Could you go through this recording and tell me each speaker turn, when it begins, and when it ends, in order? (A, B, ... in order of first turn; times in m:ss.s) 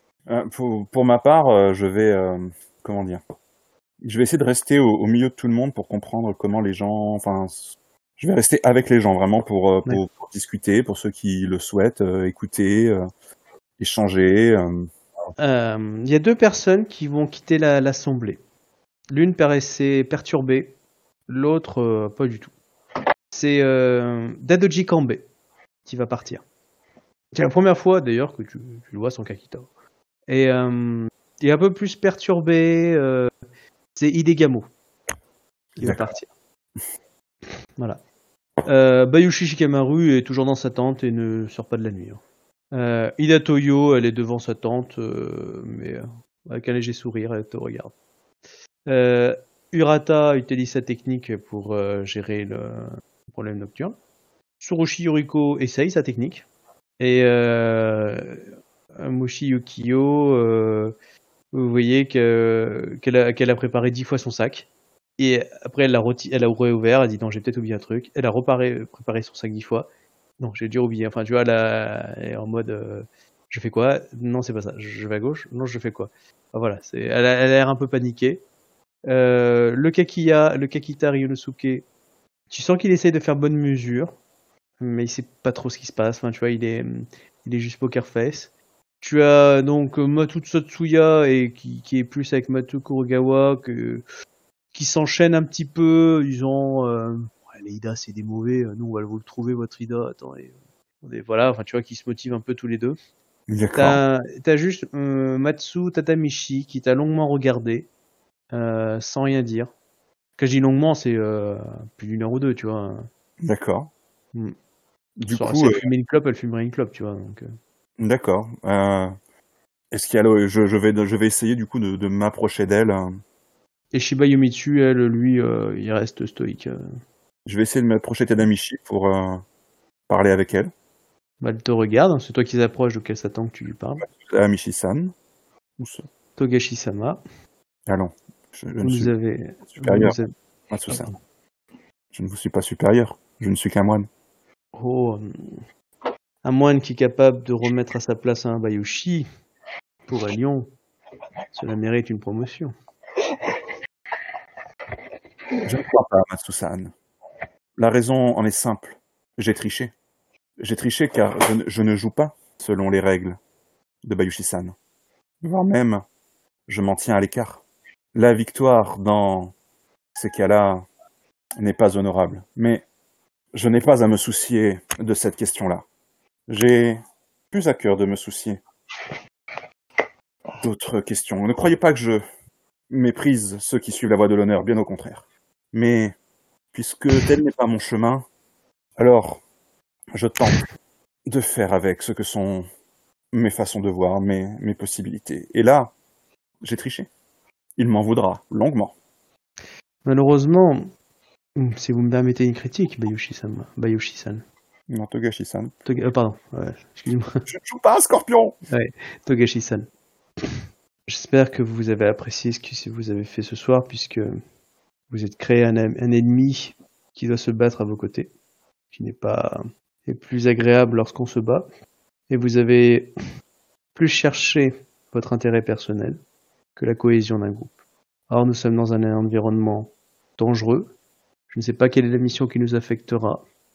0:00.3-0:03.2 A
0:04.0-0:13.0 A
0:13.8-0:14.9 A
0:15.4-0:18.4 B
0:19.1-0:20.8 B
0:21.3-0:22.5 B
0:23.3-0:25.3 B
0:25.8-0:26.4 B
0:27.3-0:29.7 B
0:30.3-0:33.3 B
0:33.9-0:34.7 B
0:35.8-0:36.3 B
0:35.8-0:36.0 A
0:38.6-0:42.2 B
0:42.7-0:47.9 B
0:48.9-0:54.0 B
0:54.6-0:56.4 B
0:57.0-0:58.4 B
0:59.0-1:00.9 B
1:01.5-1:09.9 B
1:10.4-1:18.4 B
1:19.1-1:21.9 B
1:22.5-1:24.1 B
1:24.8-1:34.0 B
1:34.7-1:43.0 B
1:43.5-1:44.0 A
1:43.7-1:47.9 B
1:48.5-1:49.7 B
1:50.4-1:53.1 B
1:53.4-1:53.9 A
1:55.2-1:55.8 A
1:55.3-1:57.5 B
1:58.0-1:59.1 A
1:59.9-2:03.2 A
2:03.9-2:06.8 B
2:07.4-2:09.4 A
2:10.1-2:10.7 A
2:11.4-2:14.1 B
2:14.1-2:15.1 A
2:15.8-2:16.0 A
2:16.4-2:17.2 B
2:17.9-2:19.1 A
2:18.8-2:20.3 B
2:19.7-2:20.2 A
2:20.7-2:21.1 A
2:20.9-2:21.2 B
2:22.1-2:24.1 A
2:24.7-2:25.6 B
2:26.4-2:29.2 B
2:30.1-2:30.7 B
2:31.5-2:32.7 B
2:35.6-2:36.9 A
2:37.8-2:39.9 A
2:40.6-2:43.4 A
2:44.0-2:44.7 A
2:45.4-2:46.0 A
2:46.7-2:47.6 A
2:48.1-2:49.5 A
2:50.2-2:50.8 A
2:51.6-2:52.8 A
2:53.5-2:55.8 A
2:56.5-2:58.6 A
3:00.6-3:02.2 A
3:02.9-3:06.1 A
3:06.7-3:08.2 A
3:09.0-3:09.4 A
3:10.1-3:10.6 A
3:11.3-3:12.6 A
3:13.3-3:15.9 A
3:16.6-3:17.1 A
3:17.8-3:18.9 A
3:20.0-3:20.9 B
3:21.6-3:24.4 B
3:24.9-3:25.7 A
3:25.8-3:27.4 B
3:27.5-3:28.6 A
3:28.7-3:29.9 B
3:30.4-3:34.4 B
3:35.1-3:38.3 B
3:38.9-3:41.7 B
3:42.3-3:43.1 B
3:43.9-3:46.2 B
3:46.8-3:47.7 B
3:48.3-3:50.9 B
3:51.5-3:53.4 B